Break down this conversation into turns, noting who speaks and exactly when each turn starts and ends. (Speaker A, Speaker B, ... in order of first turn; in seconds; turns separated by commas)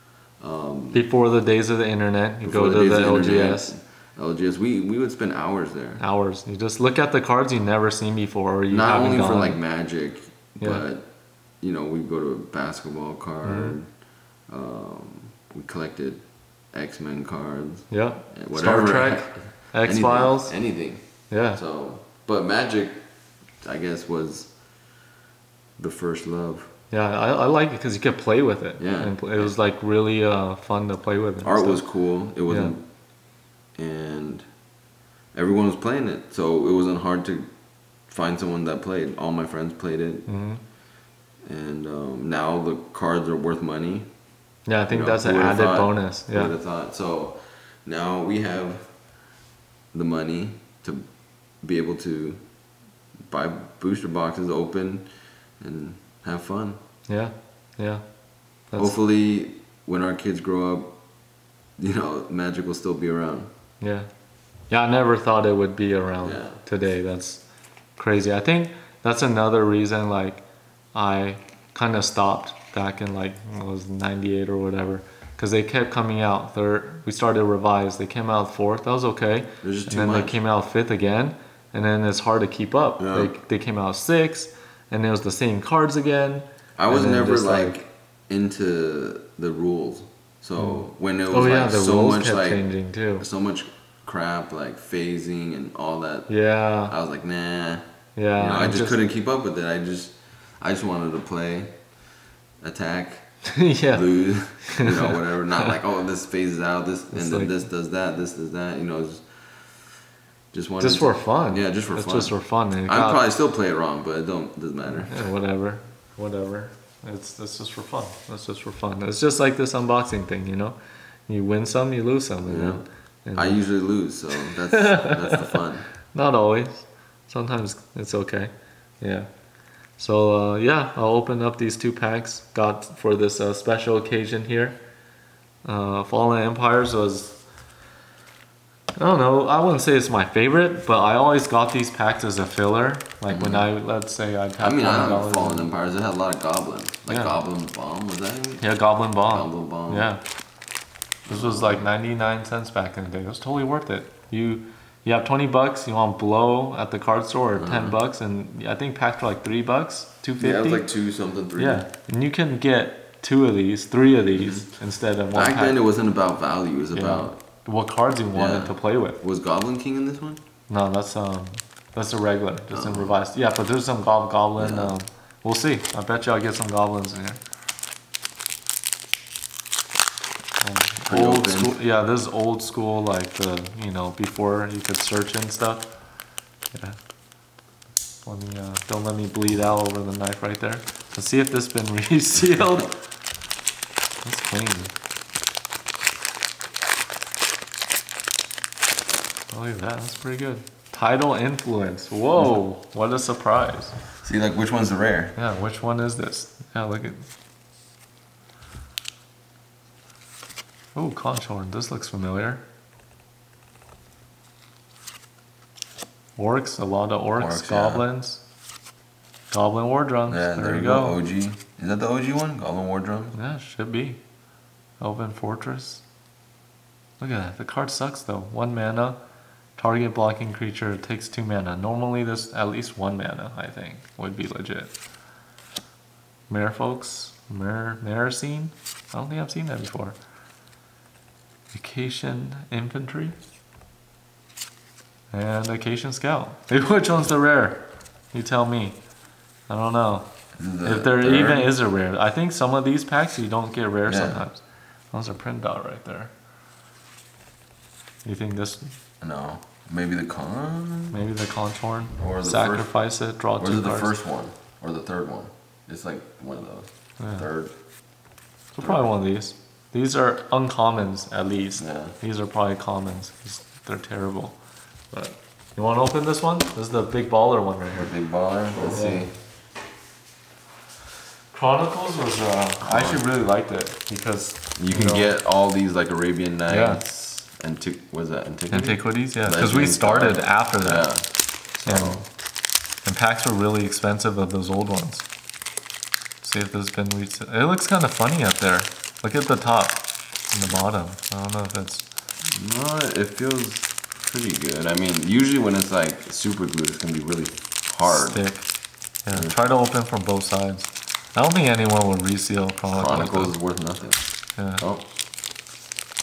Speaker A: 0.4-1.1, Speaker B: 0.9-3.7, Speaker A: 2.4-6.0, Speaker B: 6.0-9.6, Speaker A: 8.7-11.1, Speaker B: 10.6-10.8, Speaker A: 11.6-13.9, Speaker B: 13.4-13.8, Speaker A: 14.5-23.0, Speaker B: 17.9-20.6, Speaker B: 21.3-21.6, Speaker A: 23.6-24.6, Speaker A: 25.8-26.7, Speaker B: 26.9-31.9, Speaker A: 28.8-29.6, Speaker A: 31.4-32.8, Speaker B: 32.5-32.7, Speaker A: 33.8-34.5, Speaker A: 35.3-37.5, Speaker A: 38.1-40.3, Speaker B: 40.3-40.6, Speaker A: 41.4-44.1, Speaker B: 44.7-46.5, Speaker A: 44.9-48.9, Speaker A: 49.9-51.0, Speaker A: 51.6-52.4, Speaker A: 53.3-55.1, Speaker A: 55.6-56.8, Speaker B: 57.1-58.0, Speaker A: 58.8-61.0, Speaker A: 61.8-63.5, Speaker B: 63.8-64.1, Speaker B: 64.7-67.4, Speaker A: 66.2-66.6, Speaker B: 68.0-70.4, Speaker B: 70.9-87.8, Speaker A: 79.6-80.4, Speaker A: 83.0-83.3, Speaker A: 86.8-92.7, Speaker B: 90.6-93.2, Speaker A: 93.2-97.8, Speaker B: 96.3-97.0, Speaker B: 98.2-99.0, Speaker A: 98.4-101.8, Speaker A: 102.6-103.3, Speaker B: 103.5-105.7, Speaker A: 103.9-109.9, Speaker B: 107.1-107.5, Speaker A: 110.5-115.2, Speaker B: 110.8-113.2, Speaker B: 115.0-120.8, Speaker B: 121.3-123.6, Speaker A: 122.5-122.8, Speaker A: 123.3-125.9, Speaker B: 124.4-125.6, Speaker B: 126.1-129.3, Speaker B: 130.0-134.8, Speaker B: 135.6-137.4, Speaker B: 139.0-145.7, Speaker A: 143.3-143.7, Speaker A: 144.6-148.7, Speaker B: 147.1-147.4, Speaker B: 148.6-150.2, Speaker A: 149.2-150.1, Speaker A: 151.3-151.9, Speaker B: 151.3-160.9, Speaker A: 157.6-158.0, Speaker A: 160.4-161.9, Speaker B: 161.6-165.8, Speaker A: 164.4-164.7, Speaker A: 165.3-167.4, Speaker B: 166.9-169.2, Speaker A: 168.3-170.4, Speaker B: 170.7-177.4, Speaker A: 172.7-173.2, Speaker A: 174.6-174.9, Speaker B: 180.6-185.9, Speaker A: 181.1-181.8, Speaker B: 186.7-187.0, Speaker B: 188.2-192.9, Speaker B: 194.2-194.9, Speaker B: 199.5-203.9, Speaker A: 204.2-205.4, Speaker B: 205.4-207.3, Speaker B: 210.9-212.6, Speaker B: 216.4-218.4, Speaker A: 217.4-218.1, Speaker B: 219.5-221.2, Speaker A: 220.3-223.3, Speaker B: 223.3-224.2, Speaker B: 225.0-226.0, Speaker B: 227.2-229.2, Speaker B: 229.8-234.9, Speaker B: 236.5-240.2, Speaker B: 241.7-243.3, Speaker B: 245.3-249.0, Speaker B: 249.7-250.3, Speaker A: 250.6-251.7, Speaker B: 250.8-256.3, Speaker A: 254.1-254.4, Speaker B: 258.2-258.9, Speaker A: 259.2-261.2, Speaker B: 261.1-264.1, Speaker A: 262.2-262.9, Speaker A: 263.6-267.7, Speaker B: 267.2-267.5, Speaker B: 268.8-274.6, Speaker A: 268.8-269.0, Speaker A: 271.8-272.2, Speaker B: 275.1-278.1, Speaker A: 278.0-279.3, Speaker B: 278.9-279.3, Speaker B: 281.5-285.3, Speaker A: 282.8-283.2, Speaker A: 284.8-292.3, Speaker B: 286.7-287.0, Speaker B: 288.7-291.1, Speaker B: 291.9-292.2, Speaker B: 293.0-295.3, Speaker B: 296.4-302.1, Speaker A: 302.5-308.4, Speaker B: 308.0-308.7, Speaker B: 309.2-313.6, Speaker A: 309.3-309.6, Speaker A: 312.9-314.2, Speaker B: 314.6-314.8